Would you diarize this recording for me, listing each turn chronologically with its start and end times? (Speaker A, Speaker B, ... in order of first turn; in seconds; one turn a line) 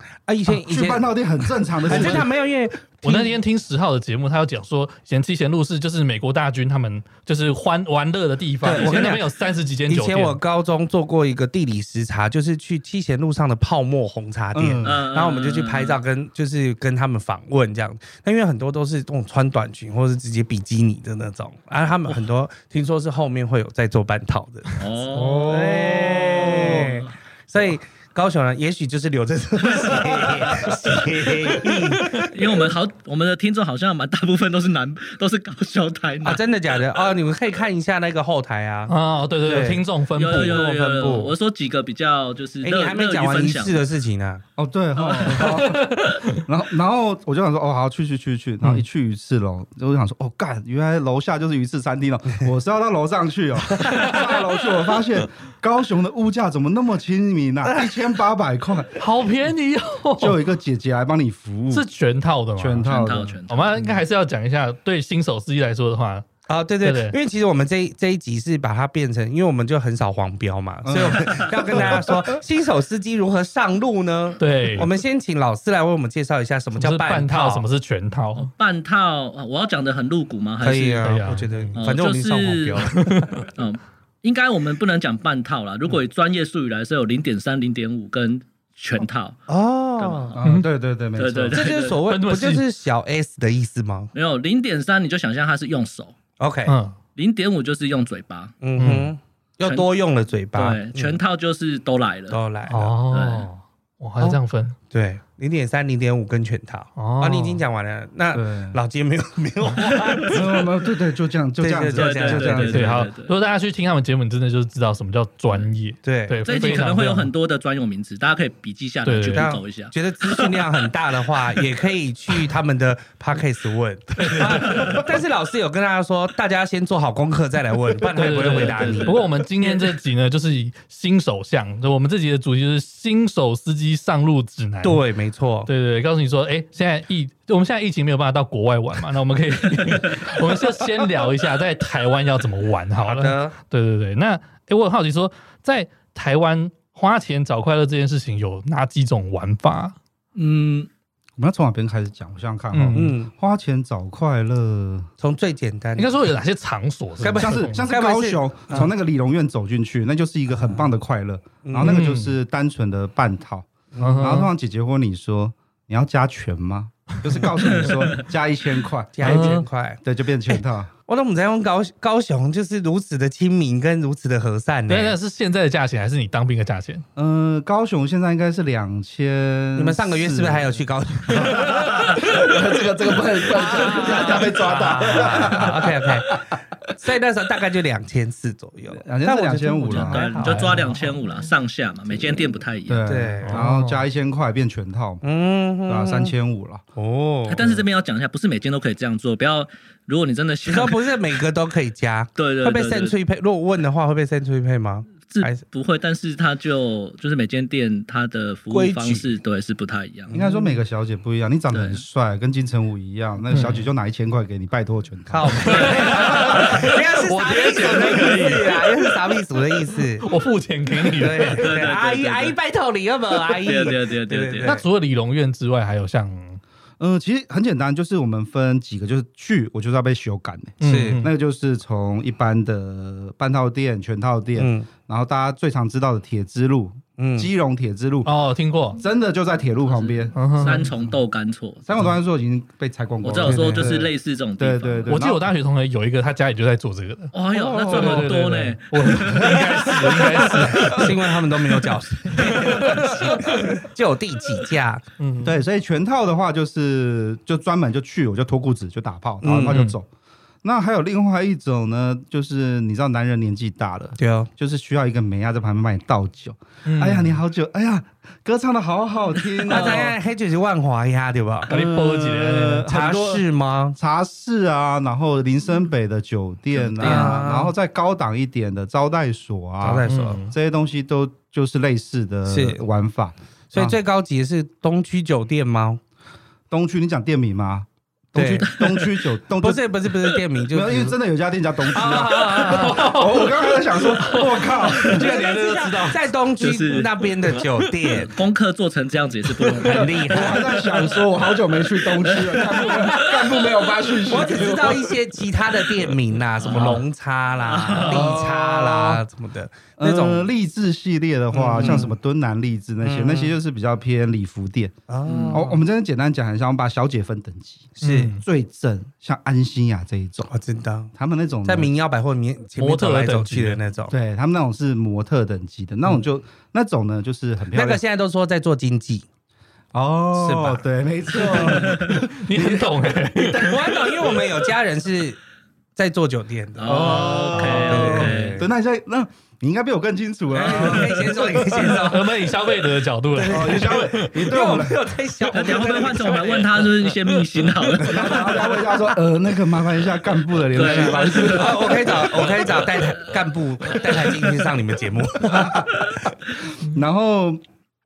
Speaker A: 0.2-1.1
Speaker B: 0.5-2.3
Speaker A: 1.8-3.3
Speaker C: 1.9-2.2
Speaker C: 3.0-10.4
Speaker A: 8.6-9.3
Speaker A: 9.9-24.8
Speaker B: 14.5-15.0
Speaker D: 14.8-16.0
Speaker D: 24.7-27.0
Speaker B: 25.1-27.0
Speaker A: 25.4-32.7
Speaker D: 32.1-36.4
Speaker A: 36.2-41.3
Speaker C: 38.9-40.6
Speaker D: 40.1-43.8
Speaker A: 42.6-44.4
Speaker B: 44.6-59.0
Speaker C: 45.2-46.4
Speaker A: 53.8-54.1
Speaker C: 53.9-54.3
Speaker C: 59.0-60.4
Speaker B: 60.2-61.9
Speaker C: 61.7-62.9
Speaker B: 62.6-63.4
Speaker D: 62.8-63.8
Speaker C: 63.5-66.3
Speaker A: 66.5-77.6
Speaker C: 66.8-67.2
Speaker B: 70.8-72.2
Speaker C: 74.4-74.9
Speaker C: 76.8-78.5
Speaker D: 78.4-81.1
Speaker A: 80.6-83.0
Speaker C: 81.0-81.8
Speaker D: 81.7-89.4
Speaker C: 82.9-83.4
Speaker A: 89.5-90.4
Speaker D: 90.0-90.4
Speaker B: 90.3-91.7
Speaker D: 91.2-92.0
Speaker A: 91.5-94.1
Speaker C: 92.0-92.6
Speaker D: 94.1-96.2
Speaker A: 96.4-96.8
Speaker C: 96.7-97.0
Speaker D: 97.2-98.5
Speaker A: 98.6-101.2
Speaker C: 98.8-99.1
Speaker D: 99.6-99.9
Speaker D: 100.5-102.4
Speaker A: 102.3-103.0
Speaker C: 102.7-104.8
Speaker D: 103.1-103.5
Speaker A: 104.9-110.7
Speaker C: 107.0-107.6
Speaker B: 108.3-108.8
Speaker D: 109.8-110.2
Speaker B: 110.3-112.9
Speaker A: 111.6-112.8
Speaker D: 111.9-113.3
Speaker C: 112.6-117.3
Speaker A: 116.0-116.4
Speaker D: 116.4-120.7
Speaker C: 119.0-119.5
Speaker A: 119.2-129.8
Speaker C: 124.1-125.0
Speaker C: 128.1-135.0
Speaker D: 128.2-129.2
Speaker A: 134.8-135.7
Speaker C: 135.7-149.9
Speaker A: 143.0-143.6
Speaker D: 150.3-150.9
Speaker B: 151.4-155.1
Speaker C: 152.7-153.1
Speaker A: 152.9-153.3
Speaker A: 155.2-156.2
Speaker C: 155.9-157.9
Speaker A: 157.2-158.9
Speaker B: 157.3-170.9
Speaker A: 160.6-160.9
Speaker A: 161.6-162.0
Speaker C: 161.8-162.3
Speaker A: 163.9-164.4
Speaker C: 164.0-164.5
Speaker D: 167.7-168.2
Speaker A: 169.1-170.0
Speaker C: 169.2-169.7
Speaker A: 171.1-175.2
Speaker C: 174.9-177.0
Speaker B: 177.2-180.8
Speaker A: 179.8-181.8
Speaker B: 181.3-186.6
Speaker C: 181.4-182.4
Speaker A: 183.5-186.4
Speaker C: 183.9-185.6
Speaker A: 186.9-190.7
Speaker B: 188.9-190.3
Speaker D: 189.9-193.2
Speaker C: 190.4-191.2
Speaker B: 192.9-195.2
Speaker A: 193.1-193.6
Speaker C: 193.4-194.0
Speaker A: 195.2-196.3
Speaker B: 195.8-196.8
Speaker A: 196.9-197.8
Speaker D: 197.5-201.0
Speaker A: 200.7-205.6
Speaker D: 202.3-203.2
Speaker D: 205.3-210.3
Speaker A: 208.7-209.3
Speaker A: 210.3-210.8
Speaker B: 210.3-216.2
Speaker D: 211.7-212.0
Speaker C: 213.5-213.9
Speaker A: 215.3-220.3
Speaker C: 215.6-219.2
Speaker C: 220.2-221.7
Speaker A: 221.0-224.8
Speaker D: 221.4-222.6
Speaker D: 223.4-224.8
Speaker C: 224.6-226.6
Speaker B: 227.0-238.3
Speaker C: 230.8-231.3
Speaker A: 230.8-231.2
Speaker A: 234.6-234.9
Speaker A: 237.2-237.5
Speaker C: 238.2-239.0
Speaker B: 239.0-241.2
Speaker D: 239.9-241.8
Speaker C: 240.3-240.9
Speaker B: 241.8-245.5
Speaker D: 243.2-245.2
Speaker A: 243.5-244.0
Speaker C: 245.1-251.3
Speaker D: 247.3-249.9
Speaker B: 247.5-248.3
Speaker A: 250.1-255.0
Speaker B: 250.7-251.1
Speaker C: 252.3-253.5
Speaker C: 255.2-255.6
Speaker B: 255.4-260.1
Speaker A: 259.4-259.8
Speaker C: 259.6-260.0
Speaker B: 260.6-270.1
Speaker A: 264.2-264.5
Speaker C: 266.8-267.4
Speaker A: 269.6-271.7
Speaker B: 271.7-284.0
Speaker C: 271.7-272.9
Speaker A: 272.9-274.0
Speaker A: 276.8-277.7
Speaker D: 277.0-277.3
Speaker A: 279.8-280.4
Speaker C: 280.1-280.5
Speaker A: 282.5-282.8
Speaker A: 283.7-286.0
Speaker B: 286.7-289.9
Speaker A: 288.3-288.8
Speaker D: 288.7-289.1
Speaker A: 289.6-291.1
Speaker B: 290.7-295.4
Speaker A: 291.8-293.1
Speaker C: 292.1-296.3
Speaker A: 294.9-298.3
Speaker D: 296.6-300.7
Speaker A: 299.8-300.7
Speaker B: 299.9-305.2
Speaker D: 302.0-303.5
Speaker C: 302.6-303.4
Speaker A: 304.2-310.5
Speaker D: 306.6-307.0
Speaker B: 306.7-307.0
Speaker D: 307.6-308.5
Speaker B: 308.0-309.2
Speaker B: 310.0-314.9
Speaker A: 311.5-312.1
Speaker D: 311.8-312.0
Speaker A: 313.0-313.6
Speaker A: 315.1-315.8
Speaker D: 315.2-315.6
Speaker B: 315.5-320.5
Speaker A: 318.0-318.3
Speaker C: 318.0-318.4
Speaker A: 320.5-321.1
Speaker B: 321.1-321.9
Speaker A: 321.6-324.1
Speaker C: 322.8-323.8
Speaker B: 324.1-328.0
Speaker A: 327.7-329.2
Speaker B: 329.9-333.4
Speaker A: 330.3-330.8
Speaker A: 331.3-331.9
Speaker C: 331.9-334.1
Speaker A: 333.4-335.4
Speaker A: 335.9-338.7
Speaker D: 336.8-338.6
Speaker B: 336.9-341.9
Speaker C: 337.3-338.2
Speaker A: 340.5-342.5
Speaker C: 341.7-344.5
Speaker A: 343.3-347.0
Speaker B: 343.4-345.1
Speaker D: 345.5-348.6
Speaker C: 347.0-347.4
Speaker A: 347.9-348.9
Speaker B: 348.0-352.3
Speaker D: 350.7-352.7
Speaker A: 350.7-356.3
Speaker B: 355.5-355.9
Speaker B: 356.8-357.6